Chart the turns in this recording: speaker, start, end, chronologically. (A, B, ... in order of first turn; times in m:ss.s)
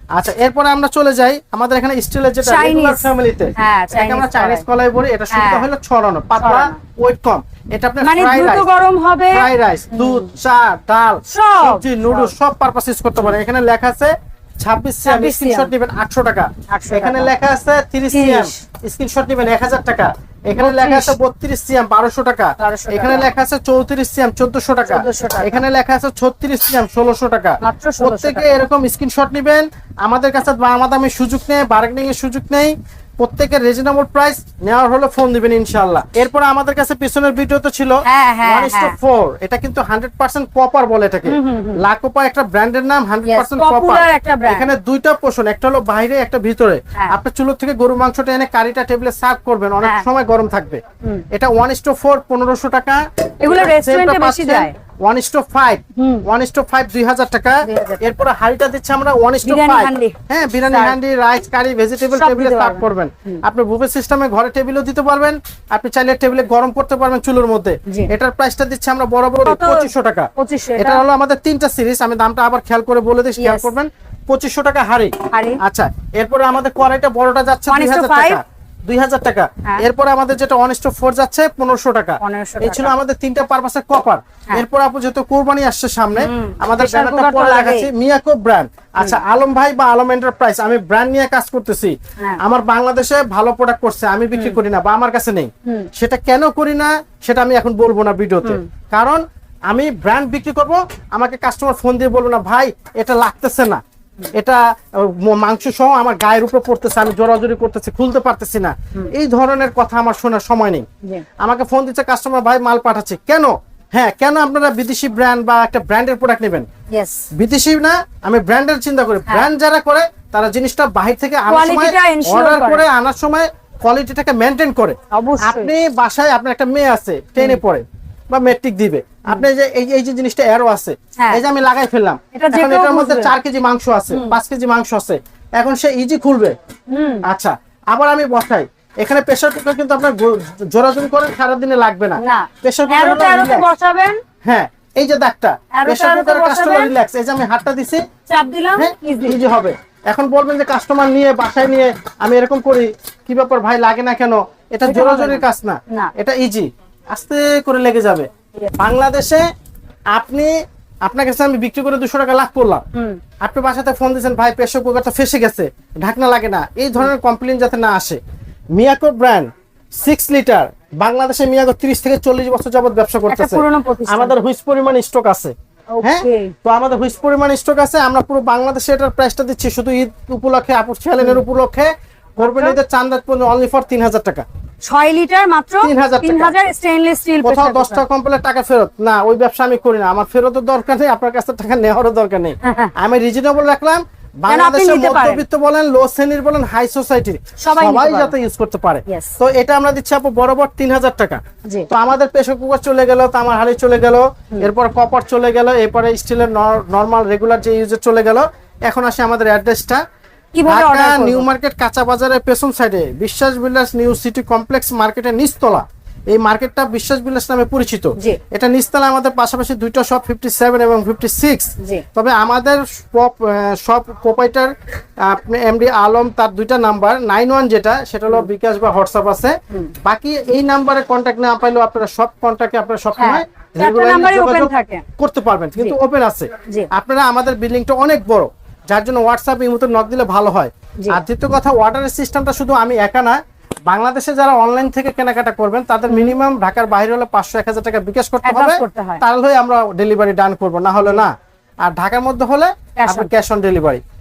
0:00.2-0:08.7 A
0:02.4-0:04.6 B
0:05.3-0:05.7 B
0:06.4-0:06.8 B
0:08.0-0:10.3 B
0:09.3-0:50.8 A
0:11.3-0:12.3 B
0:15.0-0:15.7 B
0:16.7-0:17.3 B
0:18.1-0:18.6 B
0:20.6-0:21.2 B
0:22.6-0:23.3 B
0:24.8-0:25.6 B
0:27.6-0:28.6 B
0:38.0-0:39.0 B
0:41.3-0:41.8 B
0:43.3-0:44.7 B
0:51.3-1:43.8 A
0:53.4-0:54.7 B
0:56.0-0:56.2 B
0:57.6-0:58.2 B
0:59.4-1:00.2 B
1:00.7-1:01.0 B
1:02.2-1:03.4 B
1:09.4-1:11.0 B
1:13.4-1:13.7 B
1:15.3-1:15.6 B
1:17.7-1:18.4 B
1:22.2-1:22.9 B
1:26.2-1:27.9 B
1:44.4-1:50.8 A
1:51.4-1:56.7 A
1:56.9-1:57.2 B
1:57.3-2:16.6 A
2:01.5-2:02.9 B
2:05.1-2:05.7 B
2:11.2-2:11.4 B
2:12.3-2:13.3 B
2:16.9-2:17.2 B
2:17.3-2:23.7 A
2:22.2-2:24.2 B
2:24.4-2:28.0 A
2:25.7-2:26.9 B
2:28.3-2:29.4 B
2:28.8-2:39.5 A
2:34.8-2:36.1 B
2:40.1-2:40.5 A
2:41.0-2:42.8 A
2:42.9-2:43.2 B
2:43.4-2:48.2 A
2:48.8-3:04.4 A
2:53.3-2:54.4 B
2:55.9-2:56.5 B
3:02.4-3:02.8 B
3:04.9-3:08.0 B
3:05.8-3:06.5 A
3:07.4-3:30.0 A
3:12.6-3:12.9 B
3:14.5-3:15.4 B
3:17.6-3:18.3 B
3:19.1-3:19.4 B
3:30.5-3:31.5 B
3:30.7-4:11.3 A
3:53.2-3:55.0 B
4:06.1-4:06.4 B
4:08.4-4:09.2 B
4:11.8-4:14.0 A
4:13.0-4:13.3 B